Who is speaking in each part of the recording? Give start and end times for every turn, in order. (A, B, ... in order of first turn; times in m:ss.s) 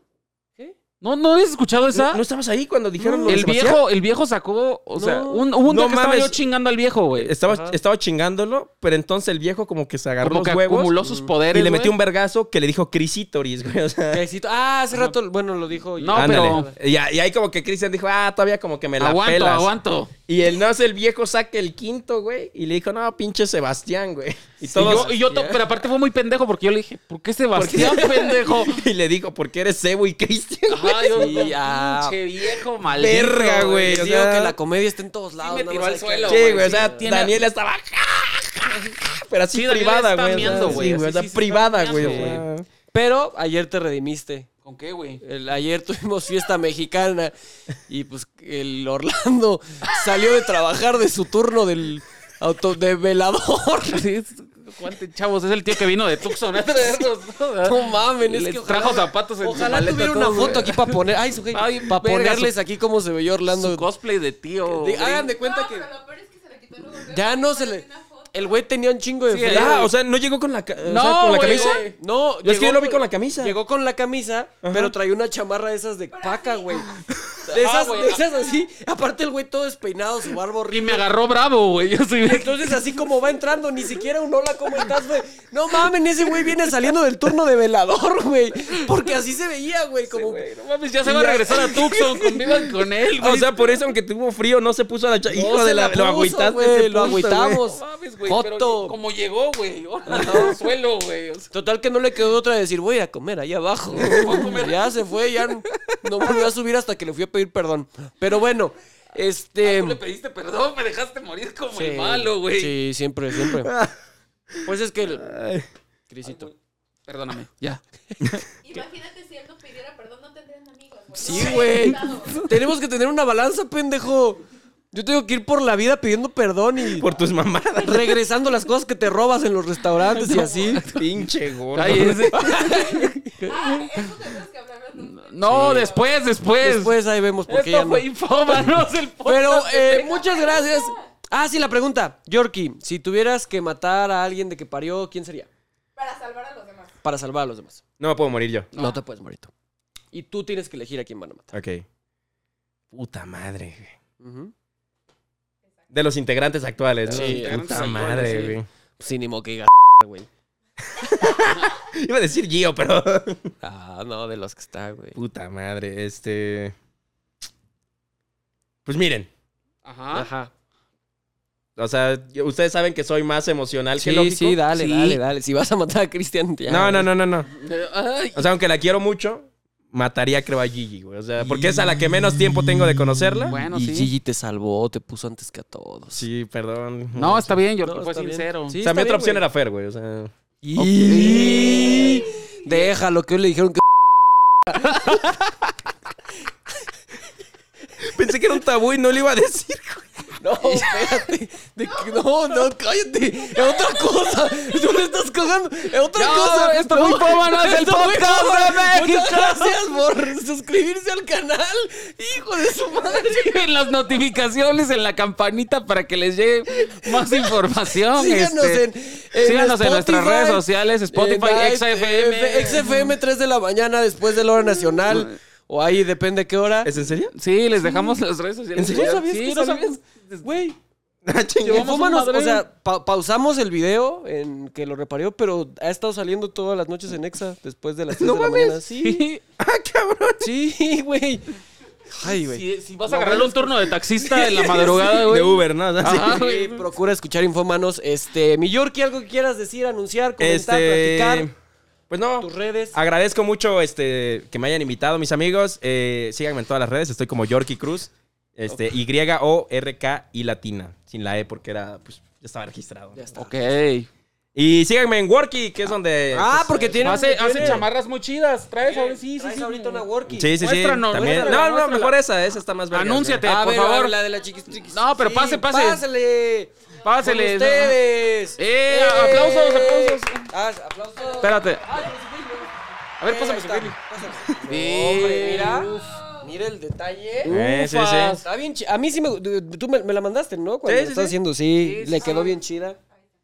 0:01.0-0:02.2 A
0:01.9-0:03.8 B
0:03.0-0:03.5 C
0:03.3-0:07.3 A
0:05.0-0:05.5 C
0:05.6-0:06.4 B
0:07.2-0:10.9 B
0:07.5-0:07.8 C
0:10.2-0:12.0 A
0:11.0-0:11.3 C
0:11.5-0:14.2 B
0:14.1-0:16.8 C
0:16.0-0:16.7 A
0:16.1-0:19.7 B
0:19.0-0:20.1 A
0:20.3-0:25.1 B
0:24.6-0:25.8 C
0:24.8-0:28.9 A
0:27.6-0:31.5 B
0:27.7-0:28.4 C
0:30.7-0:34.1 A
0:31.1-0:32.2 C
0:32.8-0:34.6 B
0:33.8-0:37.0 C
0:35.4-0:37.4 A
0:36.3-0:42.7 B
0:39.5-0:42.4 A
0:40.3-0:41.0 C
0:42.0-0:44.5 C
0:44.6-0:45.2 A
0:45.2-0:47.3 C
0:47.9-0:54.0 C
0:53.9-1:01.0 A
0:57.6-1:03.9 C
1:01.5-1:02.5 A
1:03.5-1:05.3 A
1:04.6-1:05.9 C
1:05.4-1:08.6 D
1:07.1-1:09.8 C
1:09.3-1:09.9 A
1:09.5-1:11.9 B
1:10.8-1:12.0 A
1:11.4-1:16.9 C
1:12.4-1:13.6 B
1:14.6-1:14.9 B
1:16.1-1:17.3 D
1:17.5-1:21.0 C
1:17.5-1:18.2 A
1:18.0-1:18.6 D
1:20.7-1:22.8 A
1:22.2-1:30.5 C
1:30.1-1:33.6 A
1:31.0-1:32.7 C
1:33.2-1:37.6 B
1:35.3-1:39.0 C
1:37.0-1:41.5 A
1:40.1-1:40.6 C
1:41.5-1:50.0 C
1:44.0-1:45.0 A
1:45.8-1:46.4 A
1:49.6-1:52.8 A
1:51.7-1:53.7 C
1:53.4-1:54.0 B
1:54.5-1:55.7 B
1:54.6-1:55.4 C
1:56.1-1:56.5 C
1:56.2-1:56.5 A
1:57.1-1:57.8 A
1:58.6-2:02.6 D
2:01.1-2:07.1 C
2:01.3-2:02.0 A
2:06.9-2:08.2 B
2:07.8-2:10.9 C
2:10.1-2:11.1 A
2:10.9-2:12.4 B
2:11.7-2:14.1 A
2:11.9-2:13.6 C
2:13.4-2:16.2 D
2:15.1-2:17.0 A
2:15.5-2:16.0 C
2:16.6-2:18.7 C
2:17.5-2:20.1 A
2:19.2-2:25.5 C
2:19.8-2:21.0 D
2:26.0-2:26.9 D
2:27.0-2:27.8 C
2:28.0-2:28.7 B
2:28.7-2:29.5 C
2:30.1-2:31.5 C
2:31.5-2:31.8 B
2:32.9-2:34.0 B
2:34.2-2:34.5 C
2:35.9-2:38.7 B
2:37.1-2:38.6 A
2:37.1-2:38.3 C
2:39.0-2:40.3 C
2:40.9-2:43.5 B
2:43.6-2:45.2 C
2:45.1-2:46.8 B
2:48.9-2:49.3 B
2:49.8-2:50.3 A
2:50.1-2:50.5 C
2:51.8-2:54.6 B
2:54.0-2:57.1 C
2:54.7-2:55.2 A
2:56.7-2:57.5 B
2:57.6-2:58.5 A
2:58.4-3:03.6 B
3:01.4-3:01.8 C
3:03.5-3:04.1 A
3:03.7-3:06.2 C
3:06.1-3:07.6 B
3:07.1-3:08.8 A
3:07.8-3:09.4 C
3:08.8-3:10.3 B
3:10.6-3:15.2 C
3:10.8-3:12.1 A
3:11.1-3:11.6 B
3:11.9-3:12.2 D
3:14.8-3:15.5 A
3:18.0-3:20.8 B
3:20.4-3:33.7 C
3:26.1-3:29.8 A
3:33.1-3:38.8 A
3:36.9-3:37.5 C
3:38.1-3:46.9 C
3:39.4-3:43.1 A
3:44.6-3:45.4 A
3:46.8-3:47.3 B
3:47.4-3:50.5 A
3:47.8-3:48.2 C
3:48.8-3:49.2 B
3:48.8-3:50.8 C
3:51.2-3:51.9 B
3:51.6-3:59.2 C
3:51.6-3:52.7 A
3:58.1-3:58.8 B
3:59.0-3:59.4 A
3:59.6-4:00.5 B
4:00.4-4:01.6 C
4:02.1-4:05.3 C
4:02.2-4:06.9 A
4:05.1-4:06.4 B
4:06.0-4:11.5 C
4:10.4-4:11.5 B
4:12.1-4:23.3 B
4:12.4-4:13.0 C
4:23.1-4:23.8 C
4:23.4-4:24.1 A
4:24.6-4:27.8 B
4:26.3-4:27.9 C
4:27.0-4:30.1 A
4:28.8-4:30.6 C
4:30.3-4:33.4 B
4:30.6-4:32.2 A
4:32.9-4:34.2 A
4:33.4-4:47.9 C
4:34.8-4:36.0 A
4:37.0-4:38.0 A
4:38.6-4:40.5 A
4:41.4-4:42.0 A
4:43.2-4:44.0 A
4:44.7-4:46.2 A
4:45.7-4:46.5 D
4:47.4-4:48.5 A
4:47.5-4:48.4 B
4:48.4-4:53.0 C
4:50.8-4:51.4 B
4:51.7-4:52.6 A